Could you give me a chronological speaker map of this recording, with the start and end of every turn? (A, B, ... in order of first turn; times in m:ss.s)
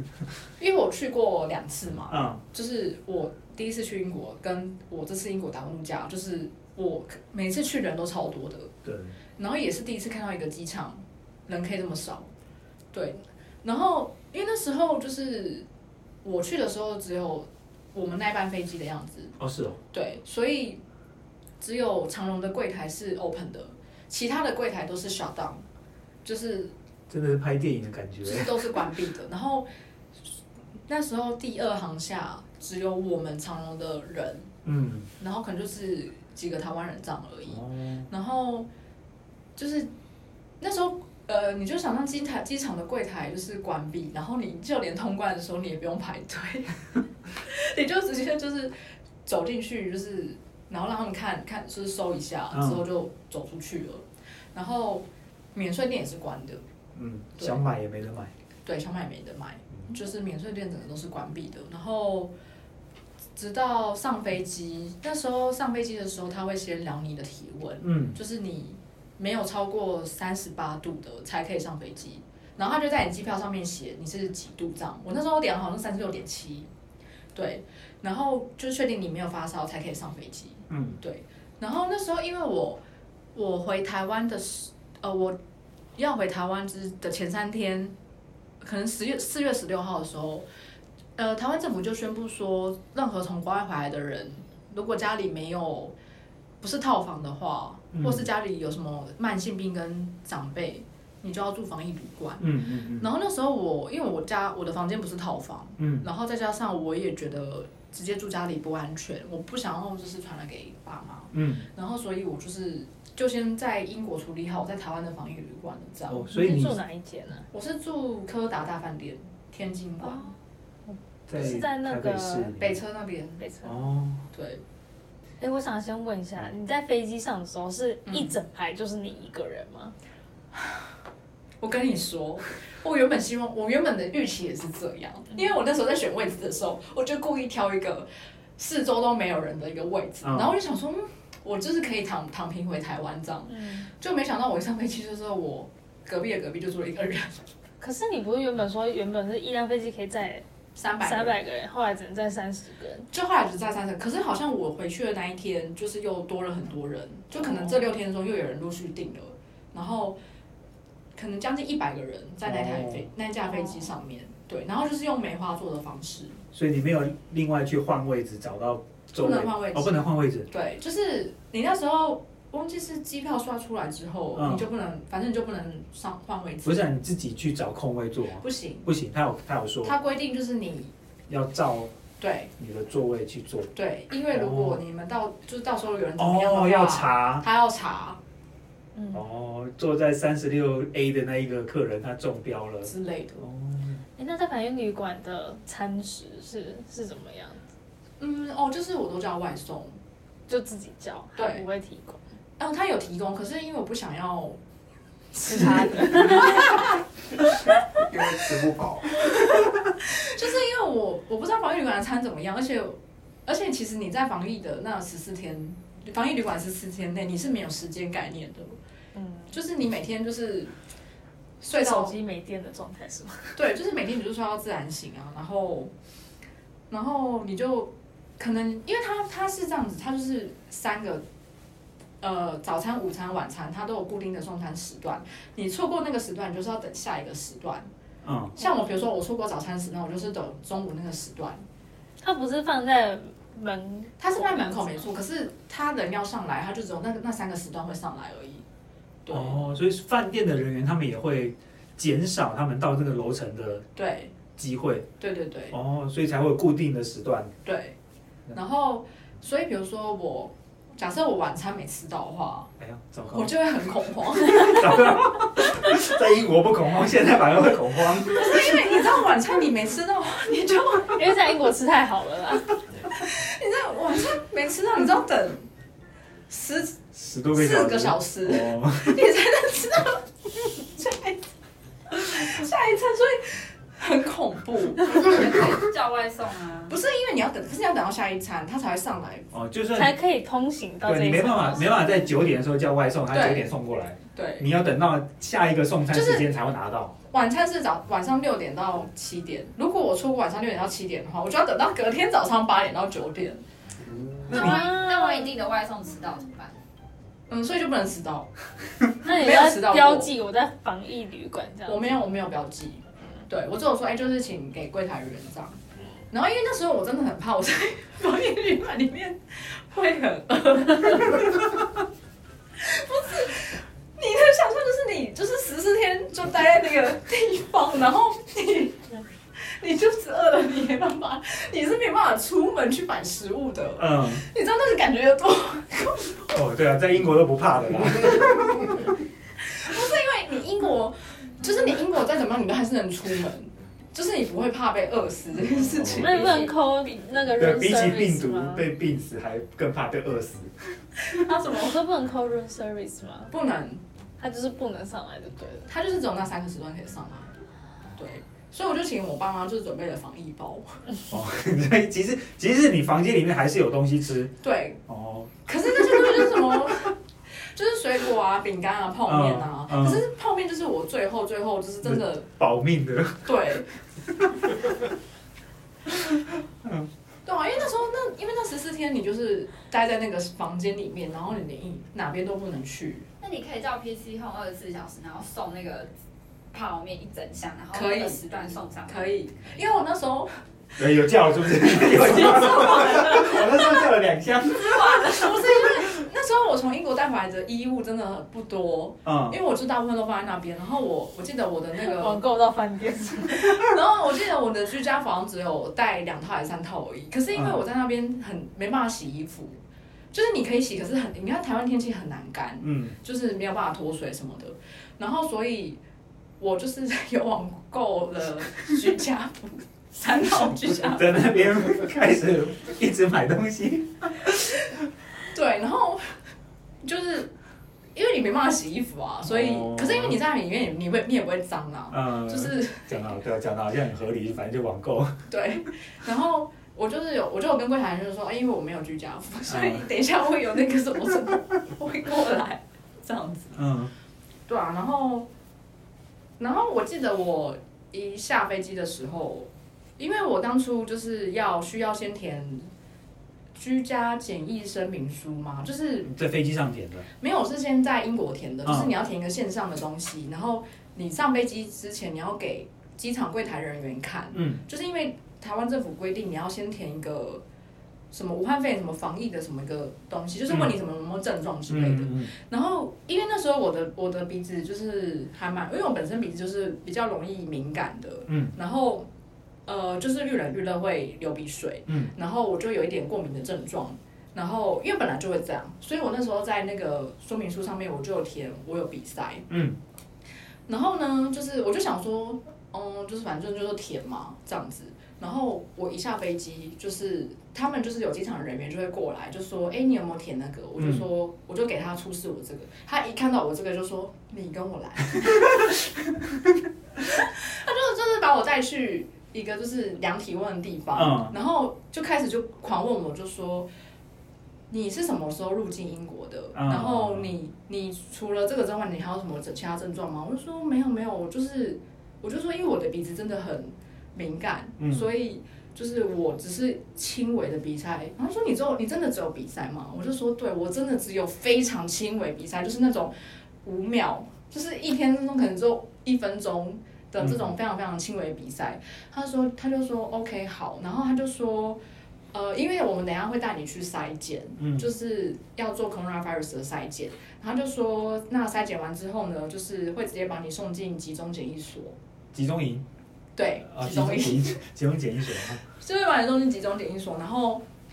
0:00.6-0:08.7 A
0:02.1-0:02.4 B
0:08.8-0:09.1 B
0:09.4-0:12.3 A
0:12.9-0:15.7 A
0:16.2-0:19.4 A
0:19.4-0:19.8 B
0:19.9-0:20.8 A
0:21.6-0:25.6 A
0:26.2-0:26.7 A
0:27.1-0:28.7 B
0:28.2-0:29.7 A
0:30.9-0:34.5 A
0:34.6-0:35.1 B
0:35.2-0:38.7 A
0:37.5-0:38.1 B
0:39.6-0:39.9 A
0:40.6-0:48.7 A
0:49.2-0:56.6 A
0:52.5-0:52.8 B
0:57.0-0:58.3 B
0:57.4-0:57.6 A
0:58.6-1:02.3 A
1:03.4-1:16.7 A
1:07.8-1:08.2 B
1:17.4-1:22.8 A
1:20.7-1:21.0 B
1:23.3-1:25.4 A
1:26.0-1:28.0 A
1:28.6-1:30.4 A
1:31.2-1:36.0 A
1:36.6-1:56.3 A
1:37.9-1:38.3 B
1:42.4-1:43.1 B
1:45.8-1:46.0 B
1:51.3-1:51.7 B
1:56.1-1:56.8 B
1:56.3-1:57.5 C
1:57.5-2:00.3 A
2:00.0-2:00.3 C
2:00.9-2:02.5 C
2:01.3-2:02.8 B
2:02.6-2:03.4 A
2:03.4-2:03.7 C
2:03.6-2:04.2 B
2:04.3-2:04.6 A
2:05.4-2:10.0 C
2:08.1-2:08.3 A
2:10.5-2:10.8 A
2:11.6-2:18.1 A
2:18.6-2:27.4 A
2:20.2-2:20.5 B
2:23.5-2:23.9 C
2:27.8-2:30.4 C
2:30.8-2:31.4 A
2:31.0-2:33.1 C
2:33.1-2:40.2 A
2:41.2-2:46.4 A
2:42.5-2:43.1 B
2:43.6-2:43.8 C
2:46.5-2:50.5 B
2:49.2-2:56.9 A
2:54.4-2:54.7 B
2:56.6-2:59.9 B
2:58.4-2:58.9 A
2:59.8-3:00.9 A
3:01.3-3:01.9 B
3:02.2-3:02.5 A
3:02.6-3:03.7 B
3:03.8-3:08.2 A
3:04.3-3:04.8 B
3:06.2-3:07.4 B
3:09.0-3:09.2 C
3:09.1-3:14.0 B
3:12.8-3:13.5 A
3:14.2-3:17.6 C
3:18.2-3:20.0 A
3:20.5-3:22.2 C
3:21.4-3:21.6 A
3:22.6-3:24.6 A
3:25.3-3:26.9 A
3:25.4-3:26.9 C
3:28.0-3:29.6 D
3:29.2-3:38.8 A
3:39.1-3:39.6 C
3:39.5-3:40.7 A
3:41.6-3:42.2 A
3:41.7-3:43.6 C
3:43.6-3:45.9 A
3:46.9-3:51.2 A
3:52.2-3:57.9 A
3:58.2-3:58.6 B
3:58.6-4:01.6 A
4:02.2-4:05.1 C
4:04.2-4:08.6 A
4:09.2-4:09.7 A
4:09.3-4:13.9 B
4:14.0-4:14.3 A
4:14.6-4:15.1 B
4:15.2-4:15.8 A
4:15.7-4:17.5 B
4:17.6-4:18.0 A
4:18.5-4:22.7 A
4:22.8-4:23.6 B
4:23.3-4:26.0 A
4:24.5-4:29.0 B
4:28.3-4:31.4 A
4:31.1-4:32.8 C
4:33.1-4:35.6 A
4:36.5-4:37.0 A
4:37.1-4:39.2 B
4:37.5-4:41.4 A
4:42.1-4:45.5 A
4:45.0-4:47.0 E
4:46.9-4:49.5 A
4:49.5-4:50.2 B
4:50.0-4:52.1 C
4:51.0-4:57.2 B
4:53.3-4:53.7 A
4:54.3-4:54.7 A
4:56.1-4:56.5 A
4:57.3-5:03.6 A
5:04.1-5:04.5 D
5:04.5-5:04.8 B
5:04.5-5:06.8 E
5:04.5-5:05.7 C
5:07.5-5:08.5 A
5:09.1-5:10.3 A
5:09.2-5:12.2 C
5:11.9-5:21.7 A
5:22.8-5:29.0 A
5:29.7-5:36.6 A
5:34.0-5:34.4 B
5:36.5-5:39.1 B
5:39.6-5:46.7 A
5:45.7-5:46.3 B
5:46.0-5:48.9 C
5:47.6-5:50.7 B
5:51.3-5:51.9 A
5:51.4-5:53.5 C
5:53.5-5:54.0 A
5:54.4-5:55.9 C
5:55.9-5:57.5 A
5:58.2-6:01.0 A
6:01.3-6:04.5 B
6:04.6-6:05.0 A
6:05.1-6:06.5 B
6:05.7-6:07.1 A
6:07.7-6:12.5 A
6:09.3-6:10.2 B
6:12.0-6:13.7 B
6:13.4-6:13.9 A
6:14.4-6:14.9 B
6:16.1-6:17.1 B
6:17.4-6:23.3 A
6:23.4-6:26.1 E
6:26.7-6:29.4 E
6:27.9-6:30.5 A
6:31.0-6:35.4 B
6:31.8-6:34.0 A
6:32.9-6:33.2 C
6:34.7-6:42.4 A
6:39.2-6:39.6 B
6:42.0-6:43.8 C
6:43.4-6:49.8 A
6:47.5-6:47.8 B
6:50.3-6:56.0 A
6:52.8-6:53.2 B
6:56.6-7:01.5 A
7:00.9-7:04.5 B
7:05.5-7:06.4 A
7:07.0-7:07.5 A
7:08.2-7:13.4 A
7:09.4-7:10.4 B
7:12.1-7:15.4 B
7:15.5-7:23.8 A
7:19.7-7:20.0 B
7:23.7-7:24.1 B
7:24.7-7:25.5 A
7:26.6-7:32.9 A
7:33.8-7:36.3 A
7:36.3-7:37.3 B
7:37.4-7:47.6 A
7:38.8-7:39.1 B
7:44.5-7:44.8 B
7:48.3-7:59.3 A
7:50.7-7:51.0 B
7:51.9-7:52.5 B
7:58.5-7:58.7 B
7:59.9-8:09.7 A
8:02.1-8:02.3 B
8:09.7-8:10.0 B
8:10.9-8:26.1 A
8:21.0-8:21.2 B
8:27.2-8:33.9 A
8:31.2-8:31.5 B
8:34.9-8:53.3 A
8:36.7-8:37.5 B
8:45.0-8:45.3 B
8:53.8-9:02.0 A
8:57.4-8:57.7 B
9:02.5-9:12.2 A
9:04.8-9:05.1 B
9:12.5-9:13.1 B
9:13.6-9:14.8 A
9:13.8-9:15.8 B
9:15.9-9:17.8 A